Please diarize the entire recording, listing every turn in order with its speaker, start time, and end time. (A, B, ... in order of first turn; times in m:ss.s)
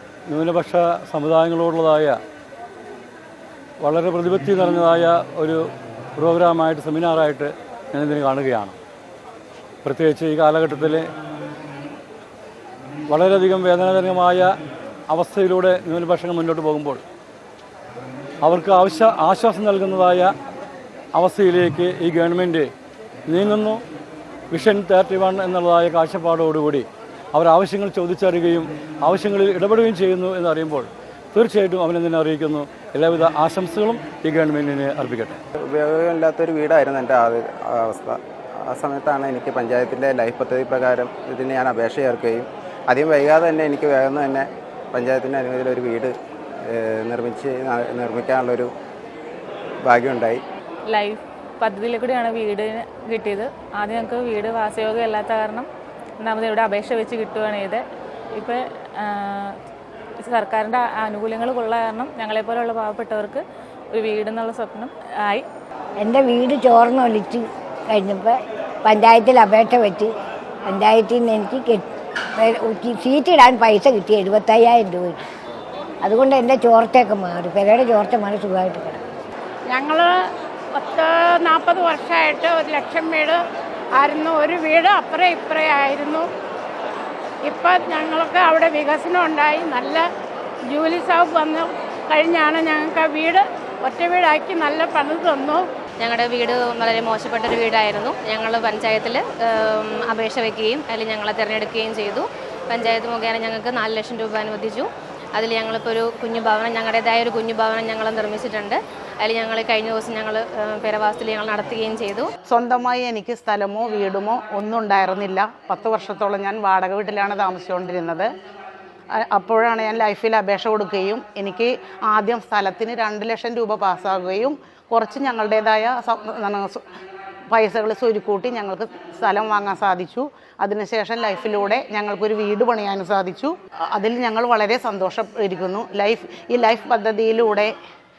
0:00.3-0:02.2 A
0:03.8-0:05.6 A
0:06.2-0:08.8 A
0:09.8-0:11.1 A
0:13.1-0:14.5 A
0:15.1-0:17.0 A
0:18.4-0:20.3 A
0:21.2-0:22.7 A
0:23.3-0:23.8 A
0:24.5-0:35.4 A
0:35.7-0:46.1 B
0:46.7-0:48.7 B
0:49.8-0:50.4 B
0:50.9-0:55.7 C
0:56.2-0:57.8 C
0:58.4-0:59.5 C
1:00.2-1:03.4 C
1:03.9-1:05.5 C
1:06.0-1:10.1 D
1:10.7-1:11.9 D
1:12.4-1:15.2 D
1:16.0-1:19.0 D
1:19.7-1:23.4 E
1:23.9-1:26.3 E
1:27.4-1:30.1 E
1:30.7-1:35.7 E
1:36.0-1:52.3 F
1:52.5-1:58.3 G
1:59.2-2:06.8 G
2:07.5-2:17.7 G